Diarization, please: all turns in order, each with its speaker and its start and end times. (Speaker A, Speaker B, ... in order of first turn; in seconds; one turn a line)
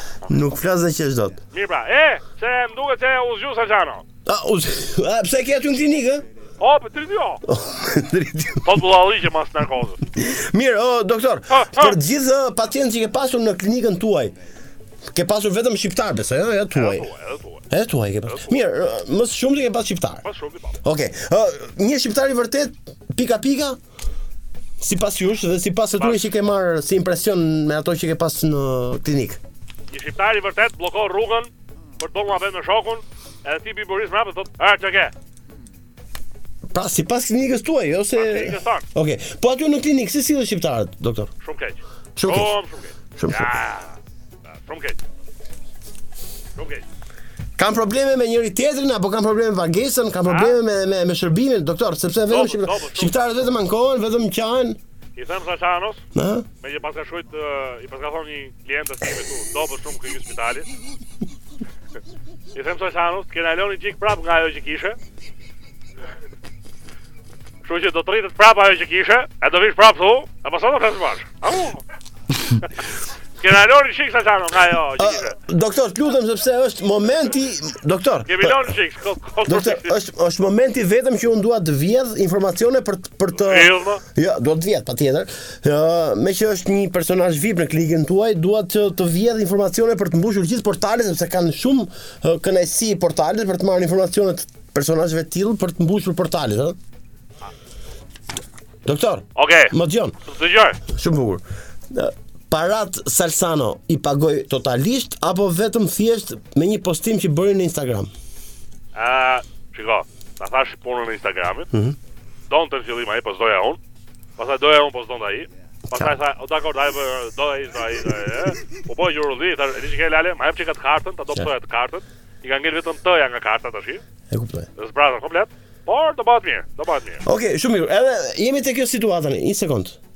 Speaker A: 0.3-1.4
Speaker B: 1.5-4.0
Speaker A: 4.3-6.2
Speaker B: 6.6-7.4
Speaker A: 7.5-8.8
Speaker B: 8.6-10.0
Speaker A: 10.2-14.3
Speaker B: 11.5-12.0
Speaker A: 15.1-17.1
Speaker B: 16.7-17.6
Speaker A: 17.7-20.2
Speaker B: 18.3-18.6
Speaker B: 20.2-20.8
Speaker A: 20.8-23.8
Speaker A: 24.8-29.4
Speaker B: 26.0-26.3
Speaker B: 29.9-35.1
Speaker A: 36.7-41.3
Speaker B: 38.2-38.9
Speaker B: 41.4-44.0
Speaker A: 42.2-42.5
Speaker A: 43.2-43.5
Speaker B: 44.5-45.0
Speaker B: 46.6-46.8
Speaker A: 47.6-54.8
Speaker B: 50.3-50.6
Speaker B: 52.3-53.1
Speaker B: 55.2-56.0
Speaker A: 56.1-56.5
Speaker B: 56.6-60.7
Speaker B: 62.5-65.0
Speaker B: 67.6-71.8
Speaker B: 73.4-75.4
Speaker A: 75.0-78.7
Speaker B: 78.3-80.0
Speaker A: 79.5-96.8
Speaker B: 83.4-84.0
Speaker A: 98.9-100.2
Speaker B: 99.4-99.7
Speaker B: 100.3-100.8
Speaker A: 100.9-108.1
Speaker B: 109.0-111.7
Speaker B: 112.5-113.8
Speaker B: 114.4-124.0
Speaker A: 124.3-124.7
Speaker B: 124.8-127.2
Speaker A: 127.2-130.0